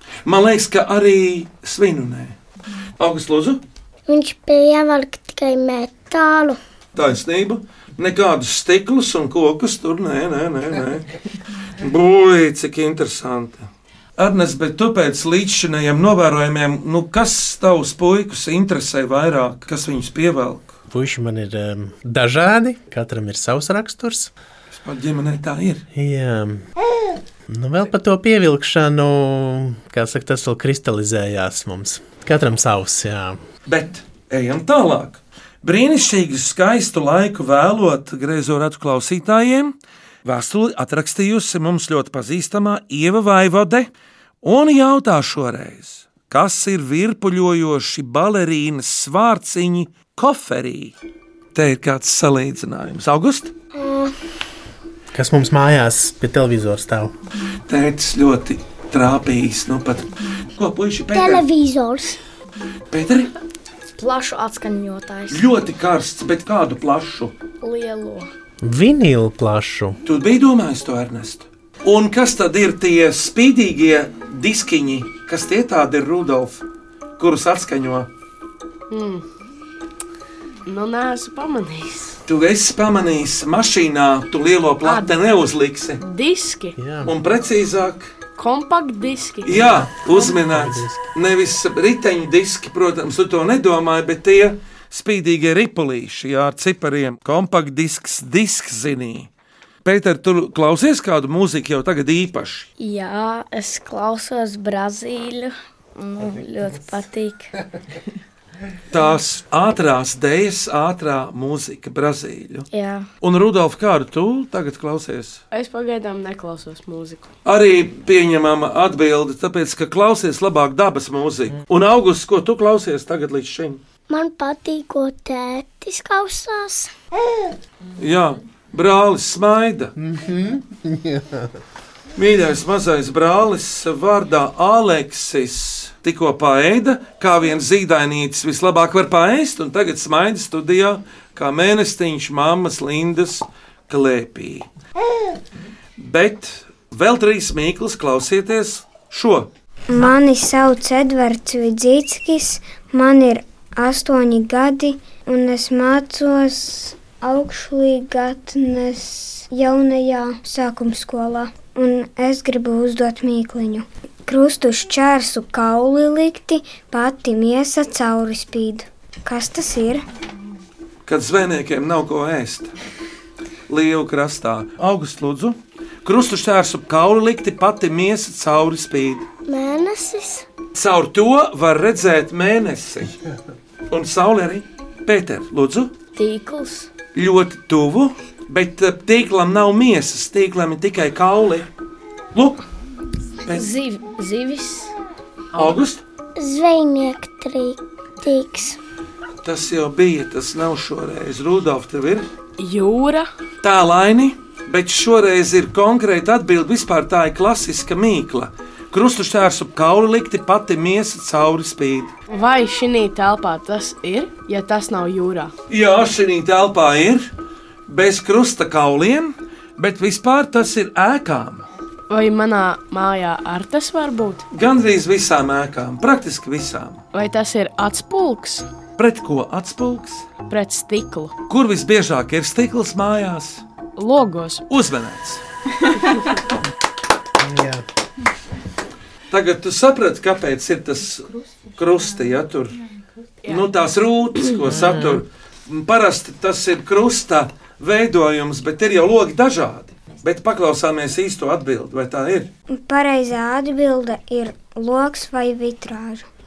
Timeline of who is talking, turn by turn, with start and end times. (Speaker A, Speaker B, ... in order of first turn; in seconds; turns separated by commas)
Speaker A: 0.2-2.4, Speaker A: 3.0-3.6, Speaker B: 4.1-6.6, Speaker A: 6.9-11.1, Speaker A: 11.7-20.7, Speaker C: 20.9-24.3, Speaker A: 24.7-25.8, Speaker C: 25.9-26.6, Speaker C: 27.5-33.4, Speaker A: 33.6-43.9, Speaker A: 44.4-50.9, Speaker A: 51.5-53.5, Speaker B: 53.7-54.1, Speaker C: 55.1-57.1, Speaker A: 57.6-61.4, Speaker B: 61.1-62.2, Speaker A: 62.9-63.3, Speaker D: 64.0-65.5, Speaker A: 65.3-67.3, Speaker D: 67.6-68.3, Speaker C: 68.6-70.0, Speaker A: 70.0-76.6, Speaker A: 77.2-78.1, Speaker E: 78.9-79.2, Speaker E: 80.6-82.2, Speaker A: 82.2-86.0, Speaker E: 84.8-85.1, Speaker E: 86.0-86.8, Speaker C: 86.8-87.1, Speaker A: 87.0-88.1, Speaker E: 88.4-89.8, Speaker A: 89.4-99.3, Speaker C: 90.1-91.0, Speaker A: 99.8-102.7, Speaker D: 102.8-107.5, Speaker A: 108.9-112.7, Speaker D: 112.7-113.1, Speaker A: 113.2-115.4, Speaker E: 115.5-117.3, Speaker A: 117.4-123.8, Speaker B: 124.1-126.9, Speaker A: 128.0-129.9, Speaker C: 129.9-131.5, Speaker A: 132.2-144.7, Speaker A: 146.0-149.5, Speaker F: 149.9-170.0, Speaker A: 171.1-172.7, Speaker A: 173.7-179.2, Speaker B: 179.4-180.5, Speaker A: 180.7-183.2, Speaker A: 183.9-185.9, Speaker D: 186.1-186.9, Speaker A: 187.1-191.7, Speaker A: 192.3-192.6, Speaker D: 193.5-194.9, Speaker A: 195.5-196.0, Speaker B: 196.4-198.8, Speaker A: 199.4-202.3, Speaker E: 202.6-203.3, Speaker A: 203.6-212.1, Speaker E: 212.3-215.5, Speaker A: 215.7-217.3, Speaker A: 217.9-221.7, Speaker E: 222.1-224.4, Speaker A: 224.5-227.0, Speaker E: 227.1-228.7, Speaker A: 229.0-230.3, Speaker E: 230.5-231.3, Speaker A: 231.5-233.6, Speaker E: 234.0-234.6, Speaker A: 234.7-235.4, Speaker C: 237.4-237.8, Speaker A: 239.3-242.8, Speaker A: 243.5-252.5, Speaker C: 244.6-245.2, Speaker F: 252.7-256.2